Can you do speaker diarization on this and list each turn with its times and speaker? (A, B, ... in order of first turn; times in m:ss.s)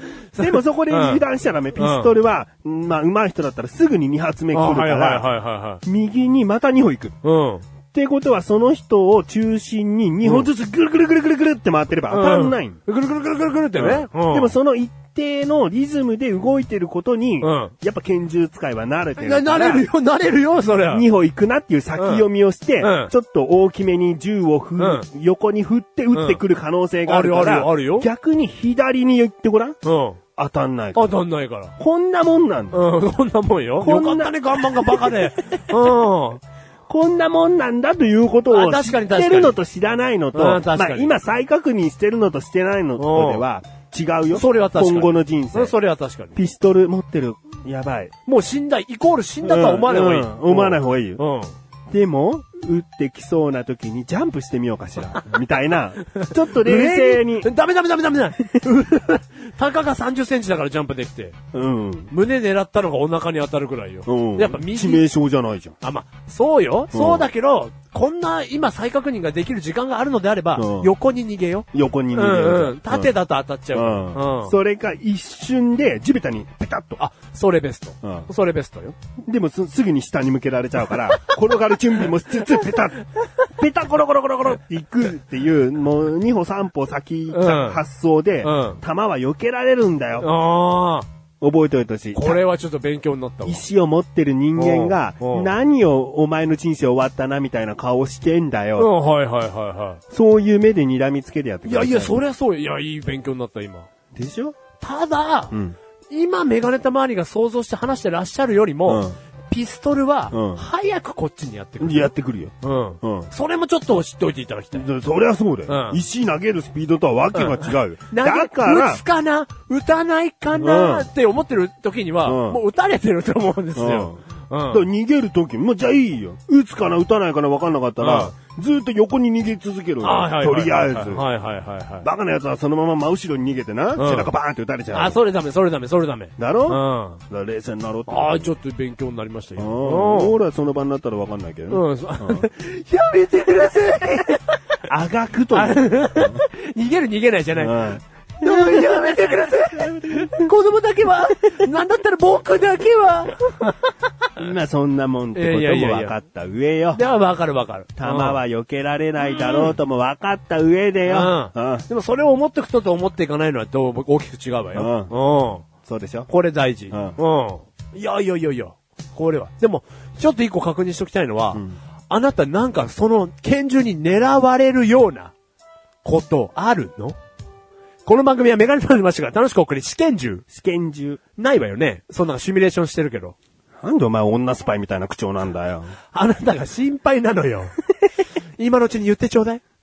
0:00.3-0:01.2 A
0:00.4-0:05.3 B
0:01.8-0:02.2 A
0:04.5-0:05.8 A
0:05.8-0:07.2 B
0:07.2-0:07.7 A
0:07.9-0:12.8 B
0:10.2-0:10.5 A
0:12.1-0:14.6 A
0:13.8-0:19.9 B
0:17.4-0:17.7 A
0:19.2-0:21.1 A
0:20.8-0:29.8 B
0:22.0-0:22.3 A
0:22.8-0:23.1 A
0:24.8-0:25.1 A
0:26.1-0:26.4 A
0:27.1-0:28.1 A
0:29.8-0:30.2 A
0:30.4-0:31.2 B
0:31.0-0:31.7 A
0:31.8-0:32.8 B
0:32.7-0:36.4 A
0:33.8-0:35.7 B
0:36.9-0:45.7 B
0:38.5-0:39.6 A
0:40.3-0:41.2 A
0:43.0-0:43.4 A
0:44.3-0:46.4 A
0:46.4-0:48.1 B
0:48.3-0:51.5 A
0:49.4-0:51.2 B
0:51.9-0:57.5 B
0:56.1-1:01.4 A
1:01.5-1:02.1 B
1:02.1-1:05.0 A
1:04.1-1:05.8 B
1:05.8-1:14.6 A
1:06.9-1:07.3 B
1:10.6-1:10.9 B
1:11.7-1:13.1 B
1:13.7-1:17.0 B
1:17.0-1:19.0 A
1:18.0-1:18.3 B
1:19.3-1:30.3 B
1:22.4-1:22.7 A
1:27.3-1:27.8 A
1:28.4-1:28.8 A
1:30.2-1:31.1 A
1:31.4-1:32.4 B
1:32.1-1:33.7 A
1:33.4-1:38.9 B
1:34.6-1:35.5 A
1:38.8-1:40.0 A
1:40.1-1:42.2 B
1:41.6-1:43.9 A
1:44.2-1:44.6 B
1:44.8-1:45.6 A
1:46.1-1:52.1 A
1:48.9-1:49.2 B
1:50.3-1:50.6 B
1:51.8-1:53.3 B
1:52.6-1:54.9 A
1:54.7-1:59.0 B
1:55.7-1:56.0 A
1:57.3-2:04.9 A
2:00.5-2:01.1 B
2:02.2-2:02.6 B
2:03.8-2:11.3 B
2:08.0-2:08.3 A
2:10.0-2:12.1 A
2:12.0-2:15.2 B
2:14.0-2:14.3 A
2:14.9-2:17.2 A
2:16.4-2:18.5 B
2:18.1-2:20.4 A
2:19.6-2:22.5 B
2:21.7-2:24.6 A
2:24.8-2:26.4 B
2:25.5-2:33.8 A
2:27.6-2:30.5 B
2:34.4-2:37.0 B
2:35.4-2:36.2 A
2:36.9-2:38.4 A
2:38.0-2:41.9 B
2:39.2-2:39.8 A
2:41.1-2:45.7 A
2:44.7-2:45.1 B
2:45.8-2:46.3 B
2:46.3-2:55.3 A
2:46.9-2:47.2 B
2:51.5-2:51.8 B
2:56.0-2:57.2 A
2:58.1-3:00.4 A
3:00.5-3:01.2 B
3:01.4-3:03.4 A
3:03.8-3:06.0 B
3:06.1-3:07.7 A
3:08.6-3:09.6 A